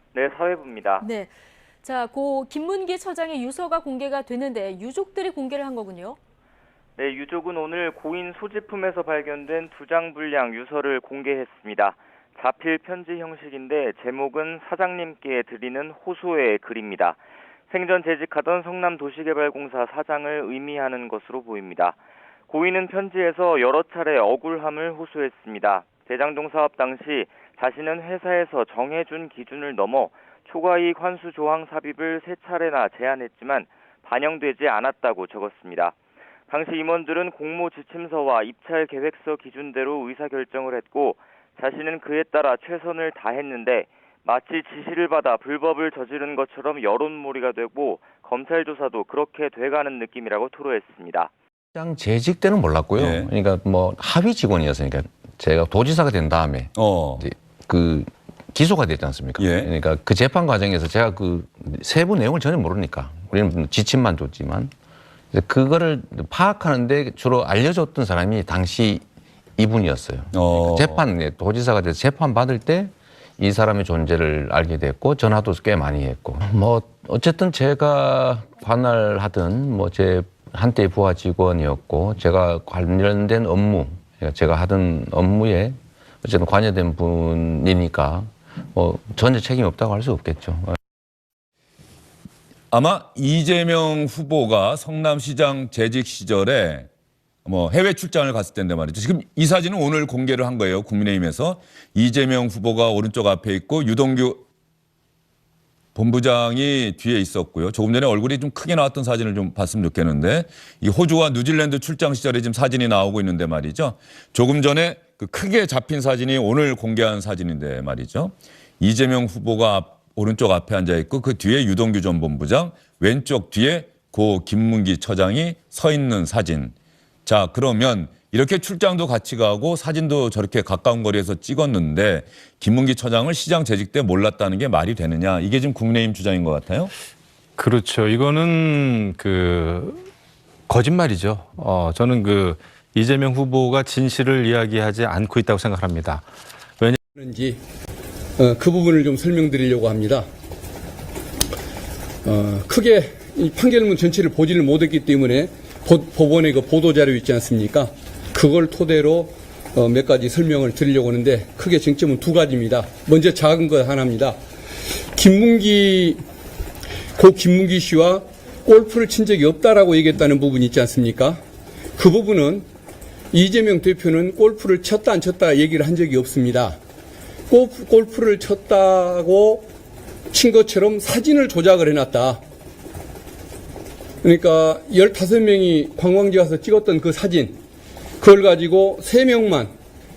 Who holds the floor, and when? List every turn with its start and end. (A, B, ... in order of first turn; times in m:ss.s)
0:00.1-0:01.0 A
0:01.0-0:06.2 B
0:07.0-0:22.0 A
0:22.5-0:36.0 A
0:36.5-0:51.3 A
0:51.7-1:04.7 C
0:53.0-0:53.3 D
0:56.8-0:57.2 D
0:59.4-0:59.7 D
1:05.3-1:09.0 C
1:09.6-1:30.8 C
1:10.3-1:11.0 D
1:32.7-1:36.9 D
1:37.4-1:44.4 D
1:45.9-2:06.7 D
2:07.2-2:16.9 D
2:17.6-2:20.1 E
2:20.7-2:26.2 E
2:27.1-2:27.6 F
2:28.4-2:30.2 F
2:32.2-2:44.4 F
2:45.1-2:46.2 F
2:47.2-2:51.4 F
2:52.0-2:52.6 F
2:53.3-2:56.8 F
2:57.5-2:59.7 F
3:00.3-3:02.4 F
3:04.2-3:07.6 F
3:08.2-3:09.7 F